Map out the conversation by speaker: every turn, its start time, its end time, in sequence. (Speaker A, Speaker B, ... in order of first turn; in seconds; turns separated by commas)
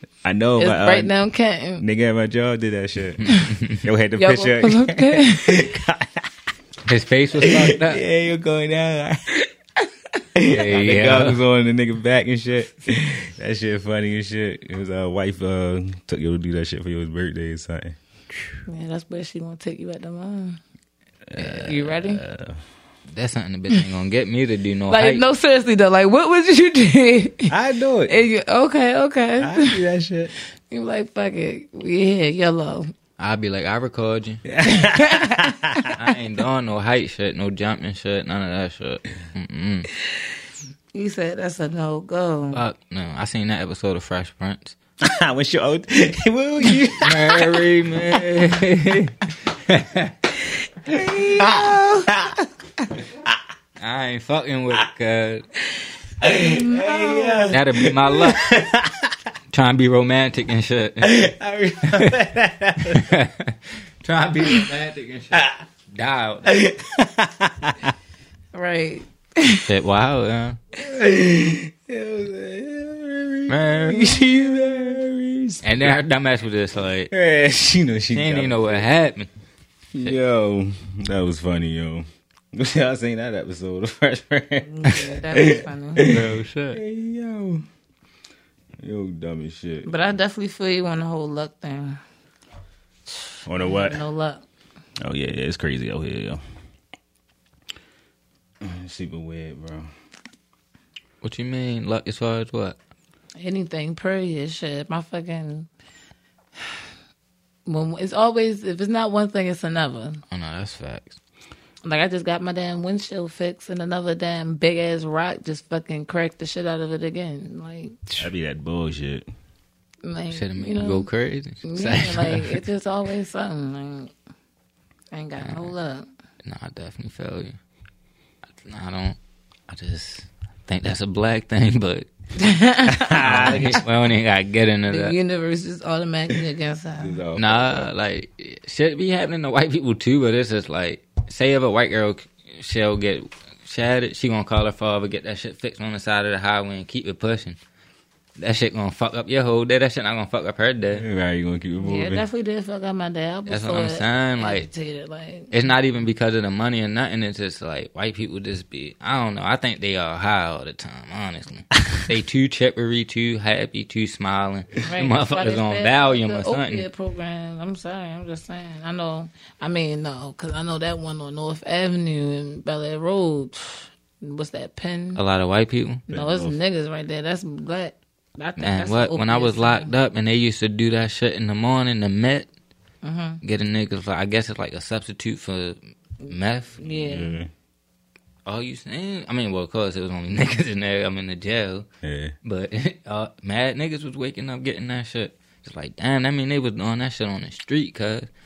Speaker A: 0.2-1.1, Speaker B: 0.6-1.8, Speaker A: 1.8-6.3, Speaker C: 3.3-3.8, Speaker B: 4.2-5.7, Speaker C: 6.9-8.0, Speaker A: 7.4-9.4, Speaker A: 10.3-17.9, Speaker C: 10.5-11.4, Speaker B: 18.7-20.6, Speaker A: 21.3-22.6, Speaker C: 21.4-21.7, Speaker B: 21.6-22.2, Speaker C: 23.1-25.2, Speaker B: 24.9-27.5, Speaker A: 27.5-28.2, Speaker B: 28.1-29.8, Speaker A: 29.4-30.3, Speaker B: 30.7-32.9, Speaker C: 33.2-34.4, Speaker A: 34.4-35.9, Speaker B: 34.7-35.9, Speaker C: 35.9-39.9, Speaker B: 40.9-42.6, Speaker C: 42.5-44.8, Speaker A: 45.0-47.7, Speaker C: 47.0-50.1, Speaker B: 50.9-52.1, Speaker A: 51.2-52.3, Speaker C: 53.8-55.4, Speaker A: 56.2-59.1, Speaker B: 56.2-57.6, Speaker C: 57.5-58.4, Speaker C: 59.5-61.2, Speaker A: 61.0-63.2, Speaker C: 62.9-66.5, Speaker A: 66.4-67.9, Speaker B: 68.5-69.7, Speaker C: 69.7-70.6, Speaker A: 70.8-76.0, Speaker C: 73.5-74.1, Speaker C: 75.6-77.1, Speaker A: 77.1-78.9, Speaker C: 78.1-79.3, Speaker A: 79.9-87.6, Speaker B: 84.6-86.1, Speaker C: 86.0-86.8, Speaker A: 88.8-90.0, Speaker B: 89.8-92.0, Speaker A: 93.5-94.0, Speaker B: 93.6-94.4, Speaker A: 95.0-96.4, Speaker A: 98.6-99.9, Speaker C: 101.2-102.8, Speaker B: 103.4-105.7, Speaker B: 107.7-110.2, Speaker C: 110.3-111.2, Speaker B: 111.8-118.3, Speaker A: 118.2-119.3, Speaker B: 120.0-121.1, Speaker C: 120.3-122.6, Speaker B: 121.6-124.1, Speaker B: 125.1-126.0, Speaker C: 125.4-125.7, Speaker C: 126.4-127.6, Speaker C: 128.6-129.2, Speaker C: 129.7-132.1, Speaker B: 132.4-133.8, Speaker A: 132.9-133.8, Speaker C: 133.2-135.2, Speaker B: 134.9-137.2, Speaker A: 137.0-137.9, Speaker C: 137.3-147.6, Speaker C: 148.4-151.0, Speaker A: 150.9-152.2, Speaker B: 151.8-155.7, Speaker C: 153.5-154.7, Speaker C: 155.5-166.8, Speaker B: 164.8-175.2, Speaker C: 175.2-176.0, Speaker B: 176.1-179.9, Speaker A: 176.1-176.6, Speaker C: 178.6-182.5, Speaker B: 183.0-183.4, Speaker C: 183.4-186.9, Speaker B: 186.2-187.4, Speaker A: 186.9-187.5, Speaker C: 188.4-191.9, Speaker A: 192.0-192.3, Speaker C: 192.4-198.3